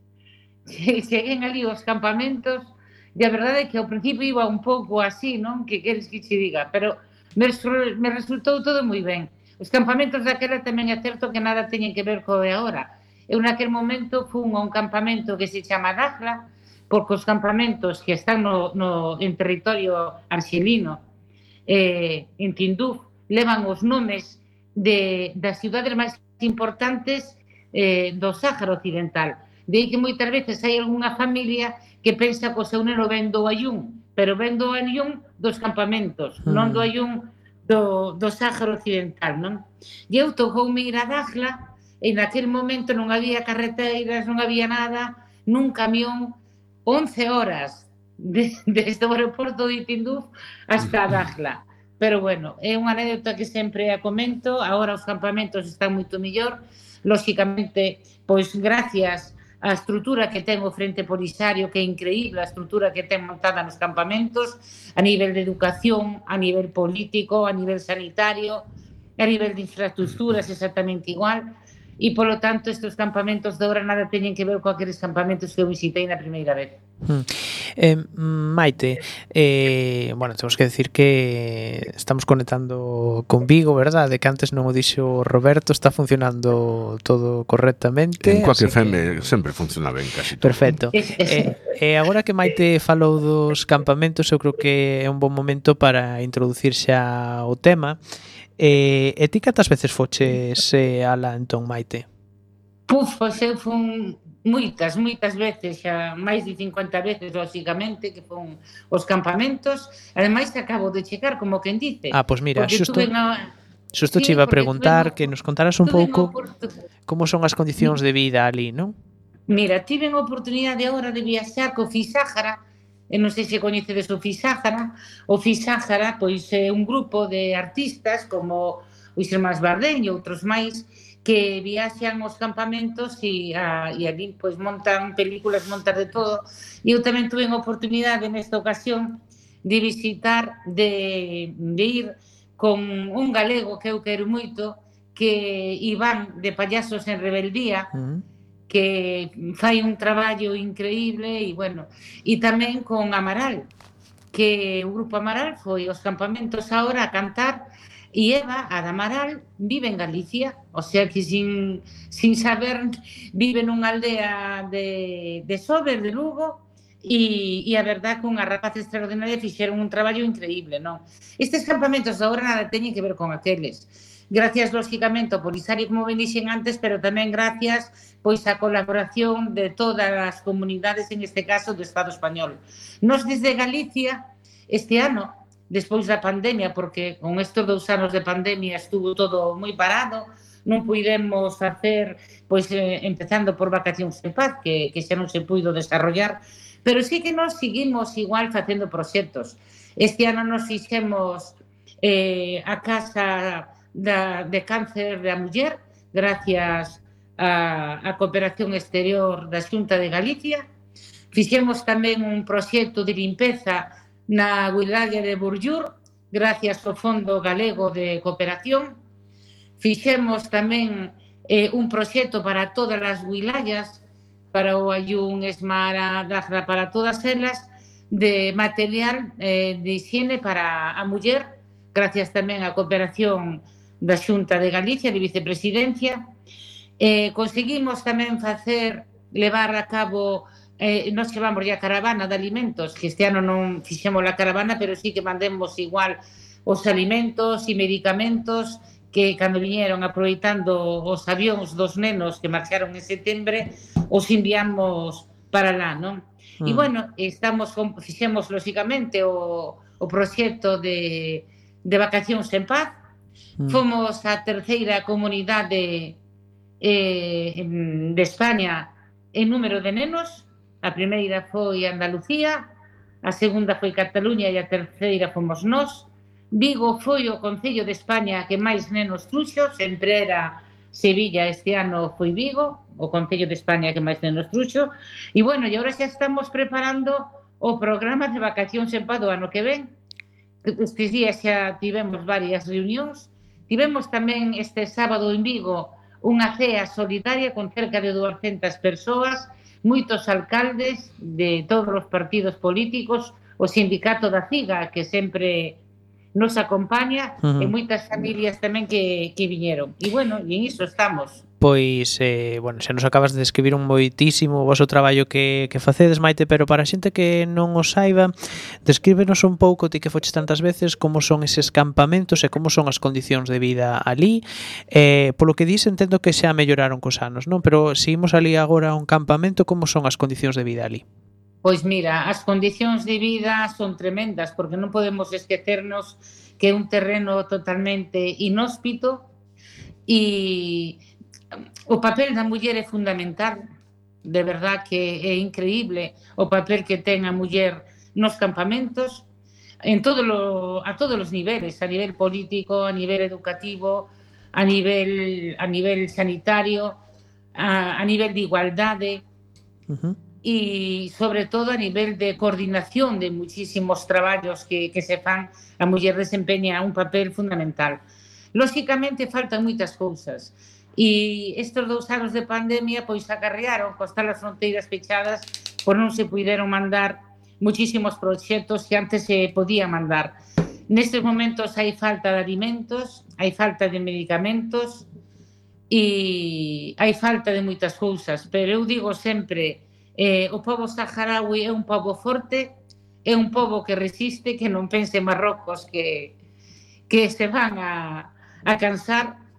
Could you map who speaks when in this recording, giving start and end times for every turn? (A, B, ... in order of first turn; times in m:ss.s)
0:00.7-0:21.0 A
0:21.7-1:08.6 A
0:36.4-0:36.9 B
1:09.2-1:16.8 A
1:17.0-1:29.1 B
1:28.2-1:30.8 C
1:30.4-1:38.0 B
1:30.9-1:31.5 A
1:38.6-1:42.0 B
1:42.9-1:53.5 A
1:52.1-1:53.1 B
1:53.9-1:56.3 B
1:54.1-1:55.2 A
1:55.8-1:56.7 A
1:57.1-1:58.9 B
1:59.5-2:02.6 A
2:03.1-2:27.9 A
2:27.9-2:28.2 B
2:28.7-2:33.7 A
2:34.3-3:30.6 A
3:31.3-3:39.0 A
3:39.8-3:44.0 A
3:44.5-3:56.2 A
3:57.0-4:22.9 A
4:16.6-4:16.9 B
4:23.7-4:26.2 A
4:26.8-4:32.7 A
4:33.2-4:49.9 A
4:50.6-5:05.8 A
5:06.3-5:11.4 A
5:07.4-5:07.7 B
5:11.6-5:18.3 B
5:18.8-5:31.0 B
5:31.6-5:39.2 A
5:40.1-5:41.0 A
5:41.9-5:43.6 A
5:44.2-5:49.2 A
5:49.8-5:57.0 A
5:57.5-5:59.2 A
5:59.9-6:00.2 B
6:00.4-6:08.0 A
6:08.5-6:20.4 A
6:20.9-6:25.0 A
6:25.9-6:32.7 A
6:33.2-6:36.3 A
6:37.1-6:39.3 A